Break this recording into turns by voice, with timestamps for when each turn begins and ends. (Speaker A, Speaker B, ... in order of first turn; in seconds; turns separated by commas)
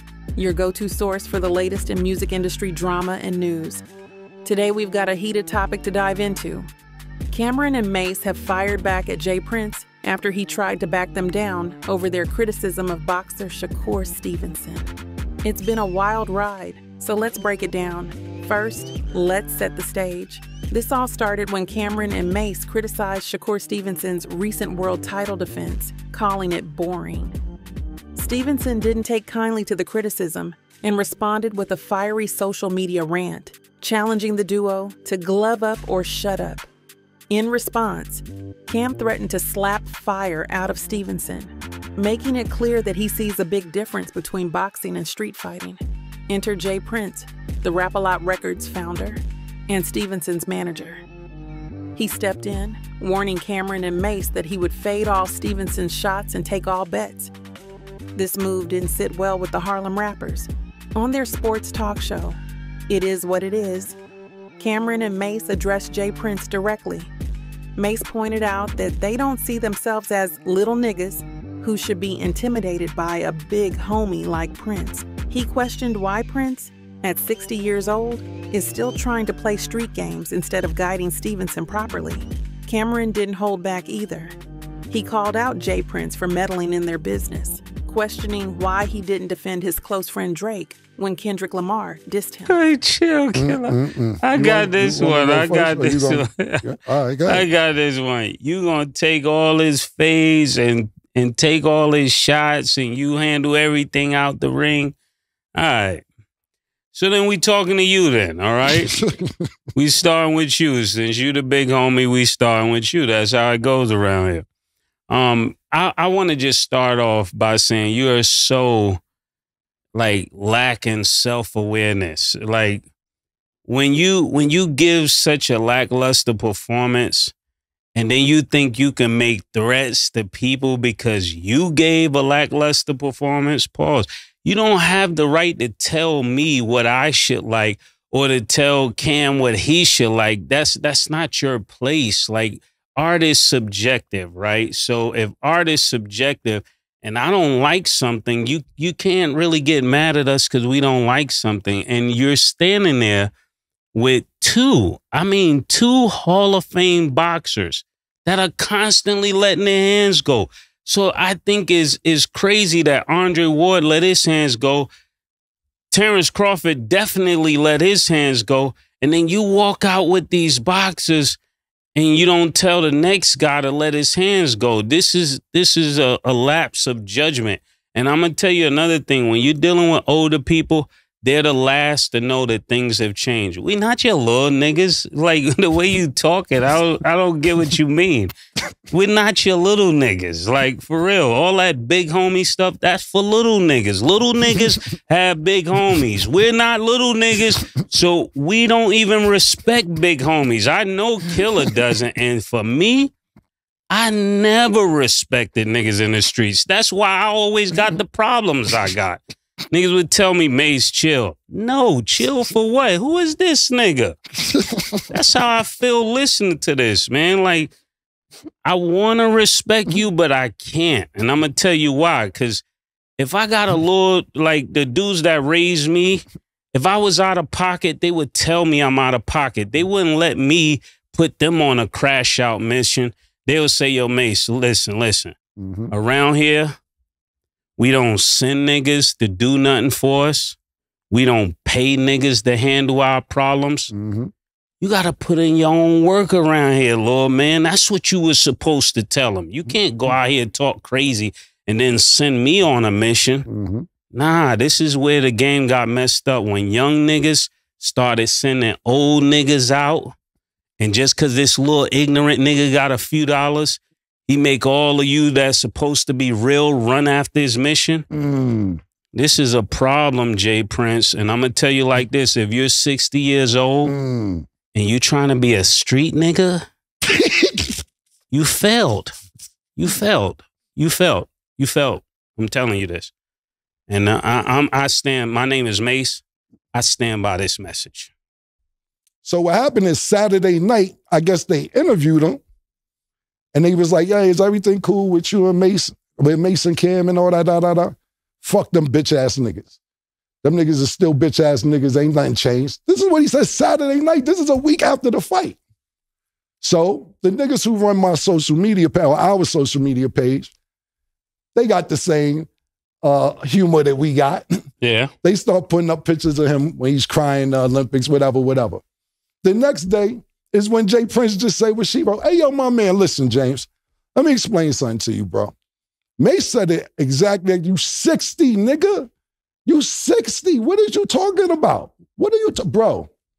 Speaker A: 0.4-3.8, Speaker A: 4.4-6.7, Speaker A: 7.3-14.9, Speaker A: 15.4-27.4, Speaker A: 28.1-36.7, Speaker A: 37.3-51.0, Speaker A: 52.0-57.3, Speaker A: 58.1-62.4, Speaker A: 62.9-64.0, Speaker A: 64.6-67.1, Speaker A: 67.8-84.4, Speaker A: 84.9-92.6, Speaker B: 92.5-96.6, Speaker C: 93.3-97.5, Speaker B: 97.2-105.0, Speaker B: 105.5-106.0, Speaker B: 106.9-109.0, Speaker C: 108.7-109.4, Speaker B: 109.8-114.5, Speaker B: 115.1-119.0, Speaker B: 119.9-122.9, Speaker B: 123.7-127.3, Speaker B: 128.0-153.3, Speaker B: 153.9-164.9, Speaker B: 165.9-171.4, Speaker B: 171.9-188.3, Speaker B: 188.9-203.1, Speaker B: 203.9-214.2, Speaker B: 215.1-217.7, Speaker B: 218.6-222.6, Speaker B: 223.2-235.4, Speaker C: 235.6-235.9, Speaker B: 235.9-236.8, Speaker B: 237.8-240.6, Speaker B: 241.1-243.9, Speaker C: 243.9-244.3, Speaker B: 244.8-253.5, Speaker C: 253.5-253.9, Speaker B: 254.1-260.1, Speaker B: 260.8-268.1, Speaker C: 268.1-268.8, Speaker B: 269.1-273.9, Speaker C: 273.9-274.4, Speaker B: 274.7-276.7, Speaker C: 277.1-277.7, Speaker B: 278.3-279.1, Speaker B: 279.8-283.1, Speaker B: 283.9-288.1, Speaker C: 289.2-292.4, Speaker C: 293.5-299.8, Speaker C: 300.4-305.6, Speaker C: 306.6-310.5, Speaker C: 311.6-312.5, Speaker C: 313.0-314.5, Speaker B: 314.8-315.1, Speaker C: 315.2-318.8, Speaker C: 319.4-325.5, Speaker C: 326.2-329.1, Speaker C: 329.7-333.1